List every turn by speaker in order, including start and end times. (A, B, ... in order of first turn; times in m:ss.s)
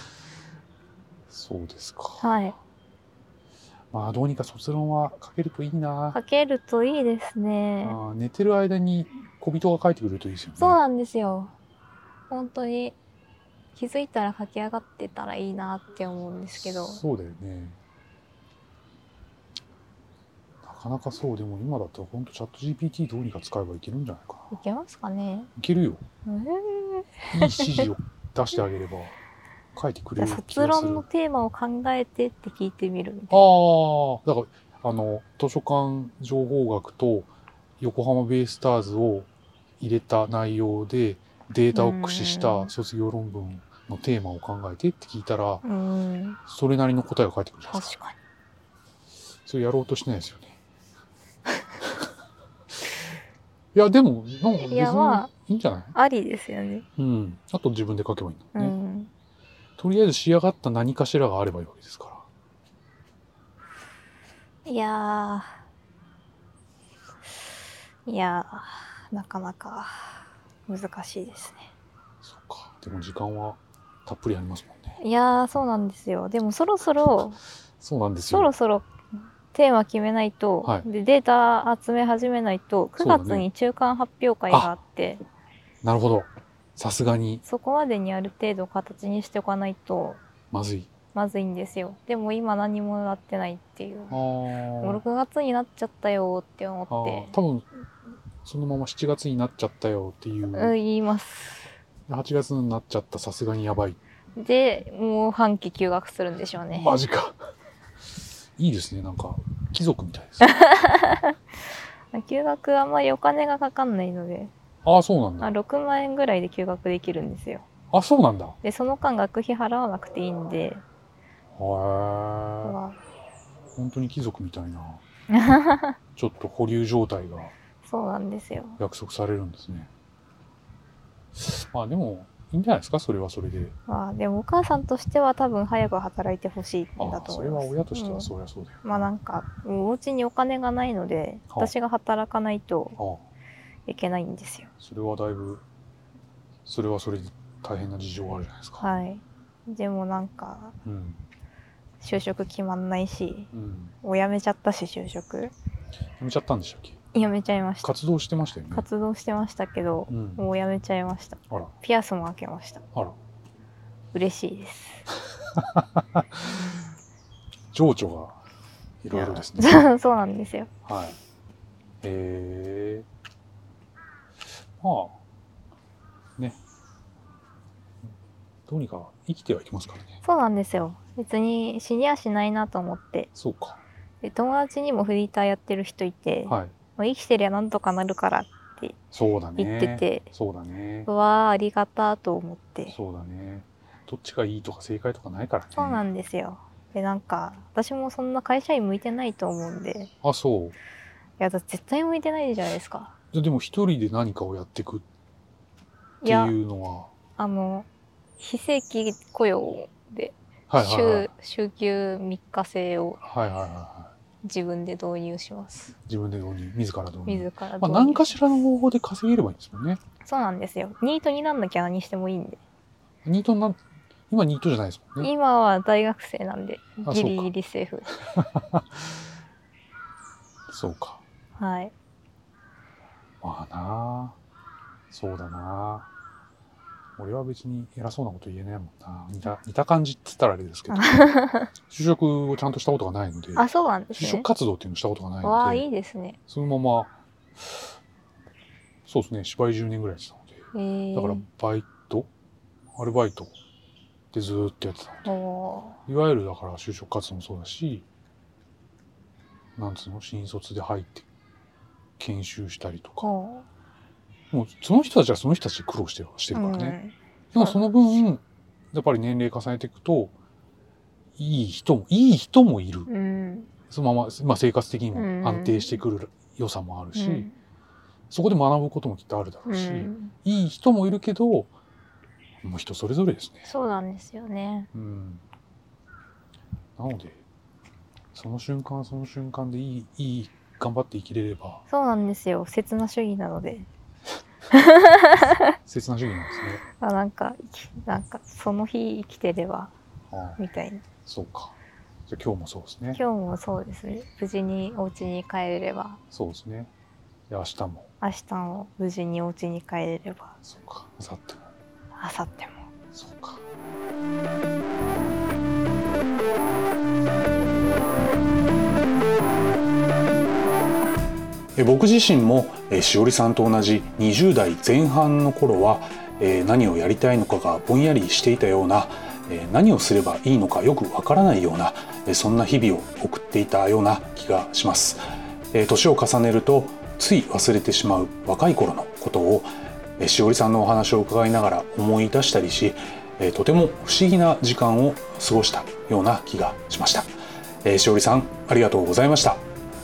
0:01.3-0:02.3 A
0:02.2-0:02.6 B
0:03.9-0:06.2 A
0:06.1-0:08.0 B
0:07.8-0:10.8 A
0:10.6-0:11.5 B
0:12.3-0:13.0 B
0:13.8-0:17.0 B
0:16.6-0:17.8 A
0:20.6-0:24.5 A
0:24.5-0:25.5 B
0:25.6-0:26.0 A
0:26.2-0:27.9 B
0:27.3-0:29.1 A
0:29.7-0:31.0 A
0:30.2-0:33.5 B
0:33.3-0:37.3 A
0:37.8-0:39.3 A
0:39.8-0:45.6 A
0:41.7-0:42.7 B
0:45.6-0:46.4 B
0:46.5-0:47.9 A
0:47.7-0:48.2 B
0:49.4-0:50.6 A
0:51.8-0:52.1 A
0:53.7-0:55.9 A
0:54.6-0:55.3 B
0:55.9-0:56.8 B
0:57.0-0:58.7 A
0:58.5-0:59.1 B
0:59.8-1:02.2 A
1:04.6-1:05.5 B
1:08.0-1:10.2 B
1:10.7-1:11.7 B
1:12.2-1:15.0 A
1:15.0-1:17.4 B
1:17.8-1:18.5 A
1:18.3-1:18.9 B
1:19.5-1:25.2 B
1:23.0-1:23.4 A
1:25.8-1:27.4 A
1:27.4-1:30.2 B
1:30.5-1:30.9 A
1:31.1-1:34.2 B
1:34.1-1:35.0 A
1:34.8-1:37.4 B
1:36.9-1:37.7 A
1:38.4-1:40.7 A
1:40.5-1:41.7 B
1:42.1-1:44.0 A
1:44.4-1:46.9 B
1:46.7-1:47.4 A
1:48.6-1:50.6 A
1:50.4-1:51.3 B
1:52.1-1:54.5 B
1:54.8-1:55.5 A
1:55.4-1:57.6 B
1:57.9-1:58.6 A
1:58.6-2:00.8 B
2:01.6-2:02.8 A
2:02.6-2:03.0 B
2:03.7-2:05.0 A
2:05.3-2:06.0 B
2:06.2-2:07.5 A
2:07.8-2:08.8 B
2:08.8-2:09.9 A
2:11.4-2:13.8 A
2:13.9-2:18.3 B
2:17.0-2:19.1 A
2:18.8-2:23.0 B
2:23.0-2:23.2 A
2:23.9-2:24.7 B
2:24.8-2:25.6 A
2:26.6-2:28.8 A
2:28.8-2:30.8 B
2:30.8-2:31.2 A
2:32.0-2:33.5 B
2:33.5-2:33.9 A
2:34.0-2:35.5 B
2:36.2-2:37.0 A
2:37.1-2:37.9 B
2:37.8-2:38.8 A
2:38.7-2:42.8 B
2:40.1-2:40.4 A
2:44.1-2:45.0 B
2:45.5-2:46.7 A
2:47.7-2:48.4 A
2:49.0-2:49.8 A
2:49.1-2:50.7 B
2:50.8-2:51.2 A
2:52.0-2:53.1 A
2:54.8-2:55.2 A
2:58.7-3:00.2 A
3:00.2-3:03.3 B
3:03.3-3:03.8 A
3:04.2-3:09.0 B
3:06.5-3:06.7 A
3:09.1-3:11.1 A
3:09.6-3:10.3 B
3:11.0-3:12.9 B
3:12.9-3:16.0 A
3:15.8-3:20.1 B
3:20.2-3:20.8 A
3:21.4-3:23.1 B
3:23.3-3:25.0 A
3:26.2-3:26.5 B
3:26.2-3:27.1 A
3:27.4-3:27.9 B
3:28.4-3:33.2 B
3:30.7-3:31.3 A
3:33.2-3:34.1 A
3:34.4-3:35.9 B
3:36.1-3:40.0 A
3:37.3-3:38.4 B
3:40.2-3:42.6 B
3:43.2-3:43.8 A
3:44.3-3:45.3 A
3:45.2-3:48.1 B
3:47.0-3:47.5 A
3:48.3-3:49.2 A
3:50.7-3:51.2 A
3:51.6-3:51.9 B
3:53.4-3:54.4 A
3:55.1-3:56.1 A
3:57.2-4:01.2 A
4:00.9-4:01.7 B
4:01.9-4:05.8 A
4:03.6-4:04.5 B
4:05.4-4:06.4 B
4:06.5-4:07.9 A
4:09.0-4:12.3 A
4:10.7-4:11.4 B
4:12.9-4:13.5 A
4:14.3-4:15.3 A
4:15.2-4:16.0 B
4:16.1-4:18.0 A
4:19.8-4:21.3 A
4:22.2-4:23.2 A
4:23.2-4:23.6 B
4:24.5-4:27.0 A
4:26.5-4:28.2 B
4:27.5-4:30.3 A
4:31.4-4:33.1 A
4:33.1-4:33.7 B
4:33.9-4:37.5 A
4:35.1-4:35.9 B
4:37.1-4:37.5 B
4:38.3-4:41.7 A
4:39.7-4:40.3 B
4:42.6-4:43.7 A
4:43.6-4:44.9 B
4:44.9-4:45.4 A
4:47.0-4:47.4 A
4:48.3-4:51.8 A
4:51.9-4:53.9 B
4:54.7-4:55.8 B
4:55.8-4:56.8 A
4:57.0-4:59.9 B
5:00.3-5:00.6 A
5:00.6-5:01.0 B
5:01.2-5:01.7 A
5:02.3-5:03.2 A
5:03.1-5:06.2 B
5:06.3-5:06.9 A
5:07.5-5:08.1 A
5:08.2-5:10.5 B
5:10.6-5:11.7 A
5:12.2-5:12.8 B
5:13.1-5:13.6 A
5:21.7-5:35.2 A
5:35.7-5:47.3 A
5:47.8-5:49.6 A